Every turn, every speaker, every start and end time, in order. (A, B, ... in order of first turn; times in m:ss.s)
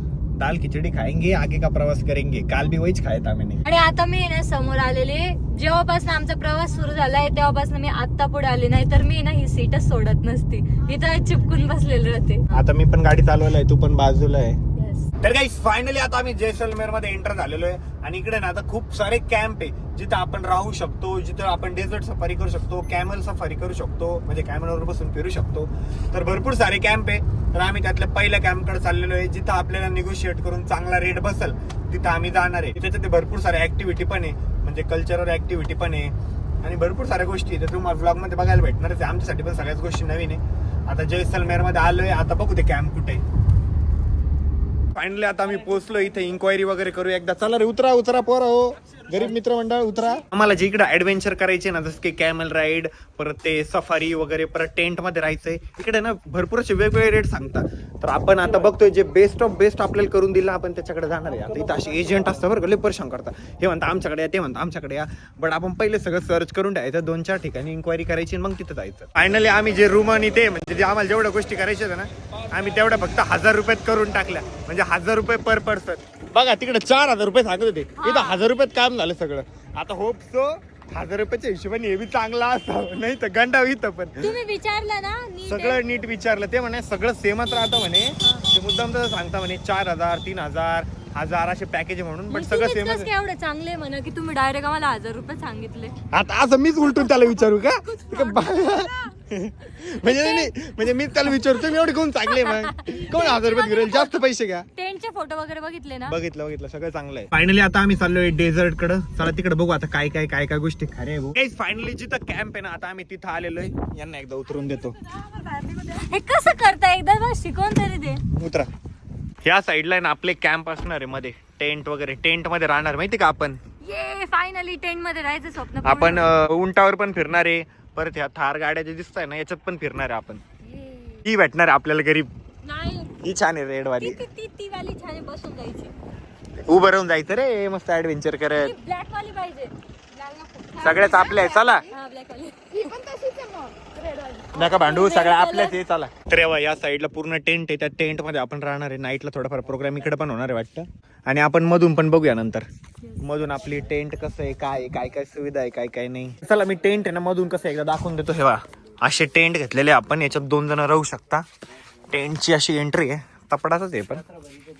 0:00.4-0:03.6 A
0:03.6-0:12.5 B
0:12.5-0:14.6 A
0:14.8-0:15.1 B
0:15.2-0:43.2 A
0:44.9-1:24.3 A
1:18.0-1:18.4 B
1:24.2-1:25.8 B
1:25.5-1:33.1 A
1:32.3-1:36.0 B
1:36.1-1:44.7 A
1:37.0-1:39.1 B
1:40.0-1:40.5 B
1:42.3-1:44.2 B
1:44.7-1:46.1 B
1:46.1-1:54.9 A
1:55.1-1:58.2 B
1:58.3-1:58.7 A
1:59.4-2:03.6 A
2:03.8-2:06.2 B
2:05.8-2:10.4 A
2:10.6-2:11.2 B
2:11.2-2:12.3 A
2:12.6-2:13.2 B
2:13.2-2:14.2 A
2:14.0-2:15.9 B
2:16.7-2:18.7 A
2:18.6-2:25.8 B
2:20.8-2:21.8 A
2:24.5-2:32.6 A
2:33.2-2:41.4 A
2:42.1-2:44.2 A